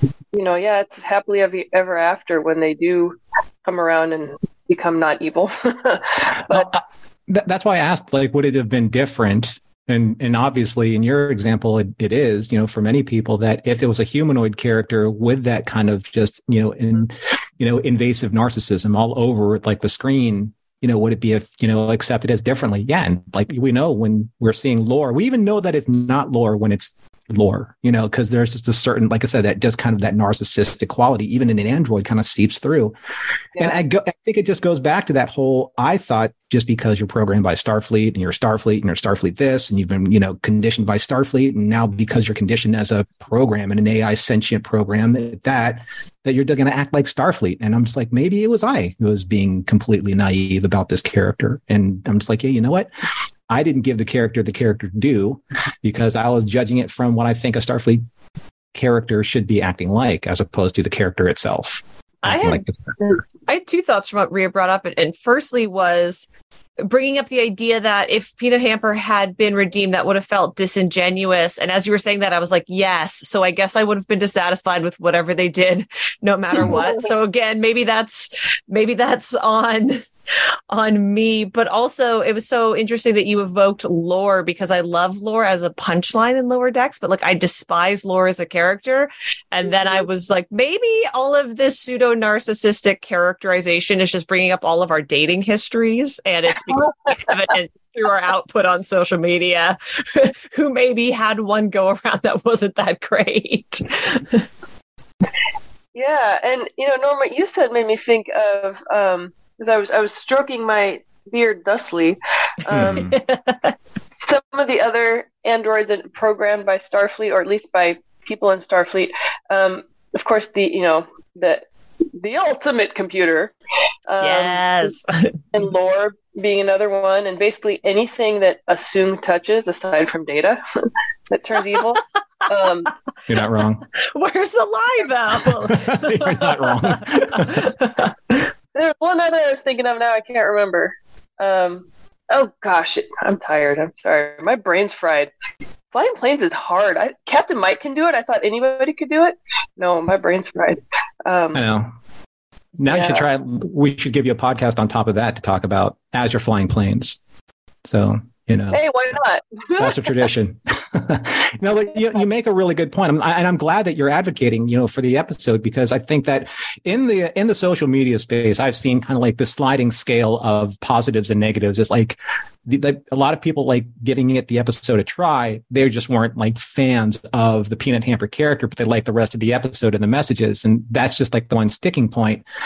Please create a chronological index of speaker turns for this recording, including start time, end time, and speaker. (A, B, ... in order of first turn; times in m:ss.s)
0:00.3-0:06.7 A
0:06.5-0:32.9 B
0:33.6-0:52.9 B
0:53.5-0:58.0 B
0:58.7-1:02.9 B
1:02.2-1:06.2 C
1:06.8-1:20.0 C
1:20.7-1:44.4 C
1:45.9-1:53.1 A
1:52.7-1:53.2 B
1:52.9-1:53.7 C
1:54.2-2:01.6 A
2:02.2-2:03.5 A
2:04.1-2:04.9 A
2:04.2-2:05.4 C
2:05.5-2:10.6 A
2:11.3-2:12.9 A
2:13.3-2:13.8 B
2:14.1-2:18.0 C
2:15.6-2:17.7 B
2:18.7-2:25.3 A
2:25.9-2:31.6 A
2:31.5-2:31.9 B
2:32.8-2:37.2 B
2:32.9-2:33.2 A
2:37.8-2:38.8 B
2:38.7-2:40.2 A
2:39.8-3:02.4 B